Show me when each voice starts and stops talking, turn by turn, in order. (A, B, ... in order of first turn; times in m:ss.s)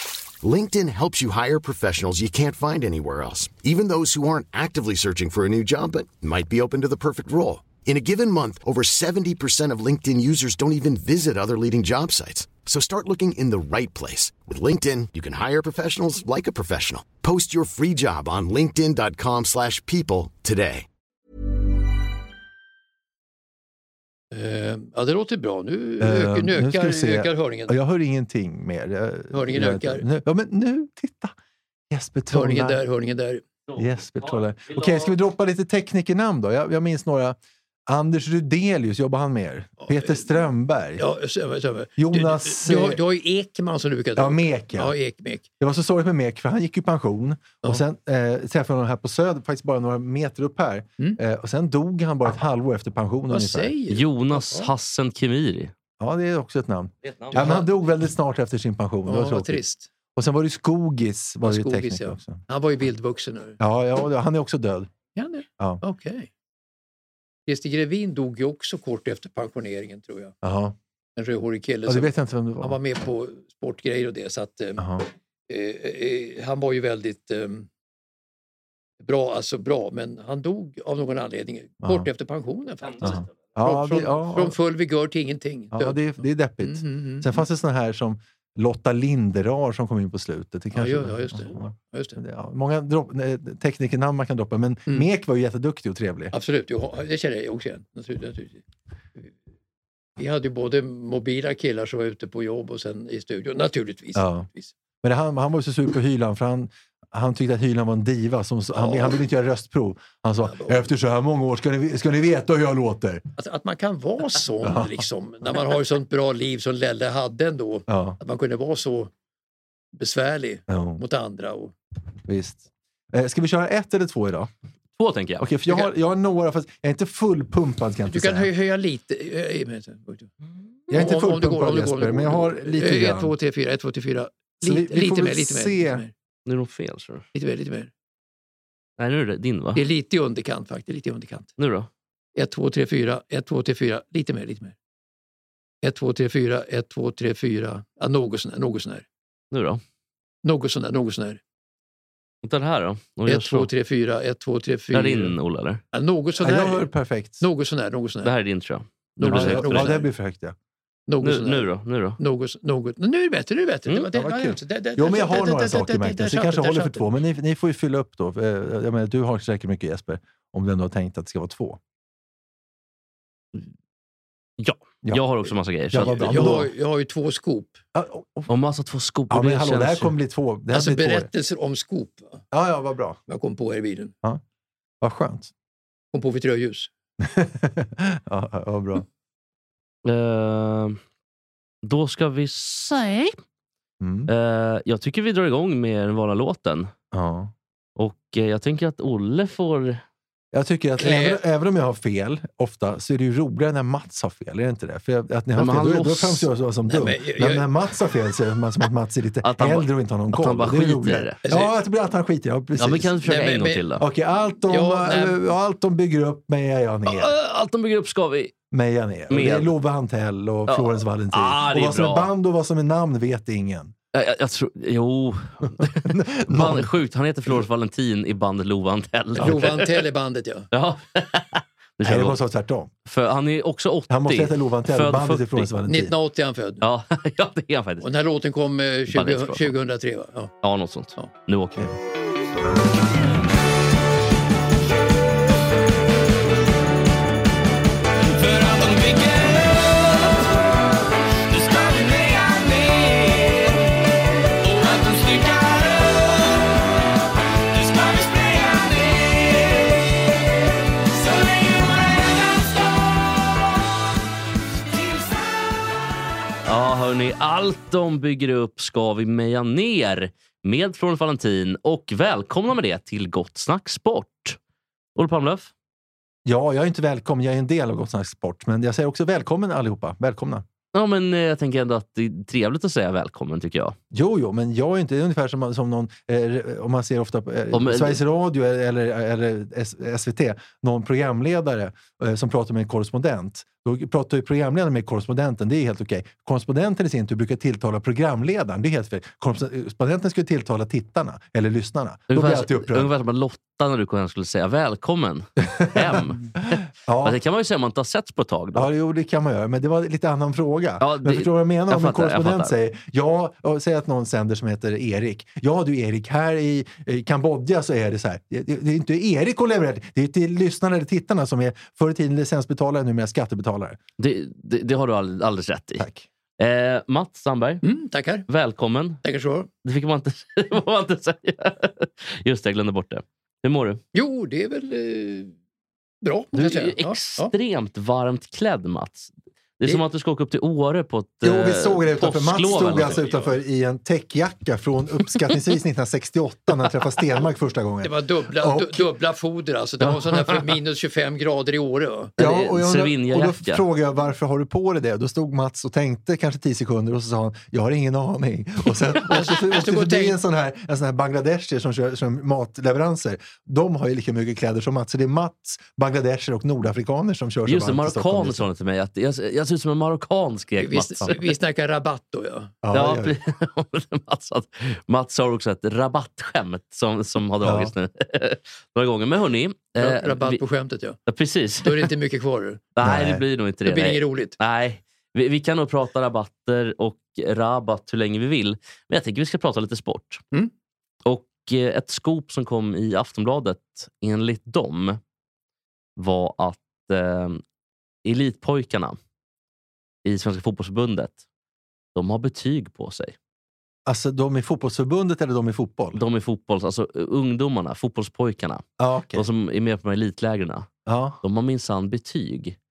0:00.4-0:20.9 A
0:24.3-0:27.7 B
0:26.0-0:31.3 C
0:29.3-0:30.0 B
0:31.9-0:32.8 C
0:32.3-0:33.4 B
0:33.7-0:35.1 D
0:33.8-0:41.0 C
0:39.8-0:40.4 B
0:41.0-0:45.5 B
0:42.0-0:43.0 C
0:44.2-0:45.0 C
0:45.6-0:53.7 C
0:53.3-0:54.7 B
0:53.9-0:55.7 D
0:56.0-0:59.6 C
0:57.0-0:57.4 D
0:57.3-0:57.6 B
0:59.1-0:59.9 B
1:00.2-1:02.4 C
1:01.4-1:03.6 B
1:03.6-1:04.9 C
1:05.2-1:06.3 B
1:07.5-1:10.4 B
1:10.4-1:10.8 C
1:11.2-1:12.1 B
1:11.9-1:12.8 C
1:12.6-1:14.9 B
1:14.8-1:15.1 C
1:15.5-1:17.7 B
1:19.0-1:27.4 B
1:23.0-1:24.6 C
1:25.7-1:36.3 C
1:30.7-1:32.2 B
1:36.3-1:38.6 B
1:40.2-1:44.7 B
1:44.2-1:44.5 C
1:45.0-1:53.2 C
1:48.8-1:49.2 B
1:50.4-1:50.9 B
1:53.4-1:59.1 B
1:54.6-1:55.0 C
1:57.9-1:58.2 C
2:00.0-2:01.7 B
2:00.7-2:01.0 C
2:02.3-2:04.5 C
2:05.0-2:05.5 D
2:05.4-2:08.5 C
2:08.1-2:10.3 B
2:10.9-2:13.3 C
2:10.9-2:16.1 B
2:14.6-2:16.0 C
2:16.5-2:17.3 D
2:17.3-2:17.9 B
2:19.0-2:19.8 D
2:19.8-2:21.5 B
2:21.6-2:21.9 D
2:22.4-2:24.8 B
2:25.8-2:29.1 B
2:29.5-2:29.8 D
2:30.4-2:31.4 B
2:32.4-2:33.7 D
2:33.3-2:35.3 B
2:34.9-2:35.8 D
2:35.9-2:36.8 B
2:36.4-2:37.4 C
2:37.4-2:38.3 B
2:38.2-2:40.0 D
2:39.2-2:40.1 B
2:39.2-2:40.6 C
2:41.1-2:47.1 B
2:41.2-2:42.2 D
2:44.1-2:51.8 C
2:54.6-2:56.6 D
2:55.0-2:56.7 C
2:56.0-2:57.8 B
2:57.9-2:58.5 C
2:58.5-3:00.1 D
2:59.3-3:01.3 C
3:00.7-3:02.4 B
3:02.5-3:03.2 C
3:03.3-3:04.1 B
3:05.0-3:05.5 C
3:06.1-3:06.9 B
3:07.2-3:09.1 C
3:10.0-3:11.0 D
3:11.8-3:13.4 D
3:14.0-3:14.3 C
3:14.3-3:16.9 D
3:17.1-3:17.5 C
3:18.0-3:20.0 D
3:20.5-3:33.2 C
3:21.0-3:21.4 B
3:25.6-3:26.5 D
3:26.9-3:27.7 B
3:29.4-3:31.4 D
3:31.5-3:31.7 B
3:32.8-3:34.0 D
3:33.2-3:33.8 B
3:34.0-3:37.3 C
3:34.7-3:35.4 B
3:37.1-3:38.5 D
3:38.7-3:43.9 C
3:39.3-3:39.7 D
3:40.7-3:42.3 D
3:44.1-3:50.0 D
3:45.8-3:46.9 C
3:49.4-3:50.7 B
3:50.7-3:52.4 D
3:52.0-3:52.9 C
3:53.1-3:55.7 D
3:54.1-3:56.2 C
3:55.9-3:56.8 B
3:56.8-3:58.1 D
3:58.0-4:00.5 B
3:59.1-3:59.8 D
4:00.6-4:01.9 D
4:08.2-4:10.7 E
4:11.5-4:14.0 E
4:14.6-4:16.9 E
4:17.7-4:20.2 E
4:21.1-4:23.6 E
4:24.9-4:25.8 E
4:26.7-4:34.6 D
4:35.2-4:35.7 D
4:36.4-4:40.7 C
4:40.9-4:44.0 D
4:44.1-5:03.1 C
4:47.7-4:48.2 D
5:02.3-5:08.9 D
5:05.6-5:07.4 C
5:08.8-5:24.0 C
5:11.0-5:12.7 D
5:24.2-5:26.0 D
5:26.0-5:26.3 C
5:26.6-5:27.8 D
5:27.8-5:28.5 B
5:28.5-5:29.2 D
5:29.2-5:29.7 B
5:29.8-5:34.0 D
5:34.1-5:35.5 B
5:36.2-5:37.5 B
5:36.6-5:43.2 D
5:41.4-5:49.1 C
5:42.9-5:43.5 B
5:48.0-5:52.3 B
5:52.4-5:53.8 D
5:52.4-6:08.7 C
5:59.3-6:00.4 B
6:07.7-6:11.5 D
6:10.8-6:12.8 B
6:12.8-6:13.4 C
6:12.9-6:20.6 D
6:17.6-6:17.9 C
6:20.0-6:21.2 B
6:21.3-6:22.1 D
6:21.8-6:22.9 B
6:23.0-6:30.4 D
6:23.0-6:23.4 C
6:23.8-6:24.6 B
6:31.3-6:35.2 D
6:36.2-6:37.6 D
6:38.2-6:39.2 D
6:40.2-6:41.4 D
6:42.1-6:43.4 D
6:44.1-6:46.2 C
6:46.1-6:50.9 D
6:49.0-6:49.4 C
6:51.1-6:51.4 C
6:51.4-6:52.8 D